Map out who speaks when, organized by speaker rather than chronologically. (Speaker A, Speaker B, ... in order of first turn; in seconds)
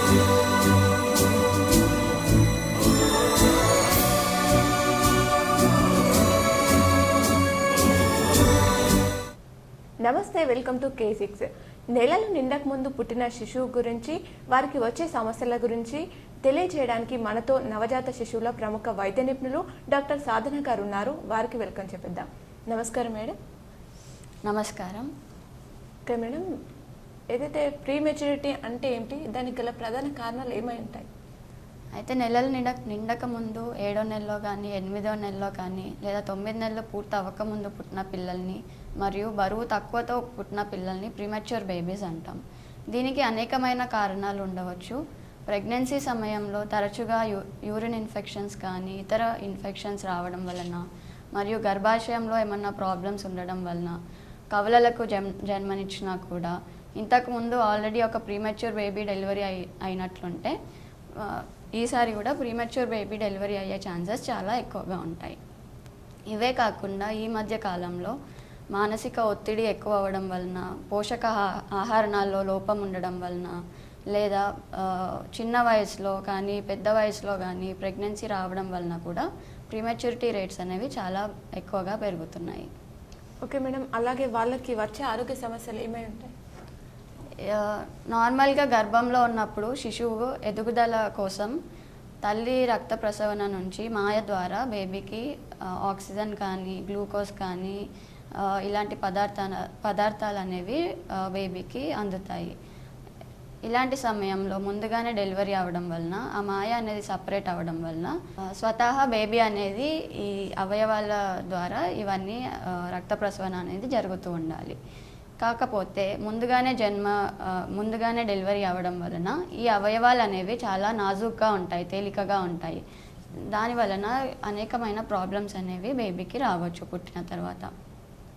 Speaker A: 10.0-23.4, 26.1-26.5, 27.3-31.1, 83.4-86.3
Speaker B: 24.4-25.1, 31.9-42.4, 42.9-50.8, 51.3-54.0, 54.5-60.5, 61.2-65.4, 66.3-68.2, 68.7-73.6, 74.1-82.7, 87.4-91.5, 92.2-97.8, 98.4-102.5, 103.7-114.8, 115.4-122.8, 123.5-127.7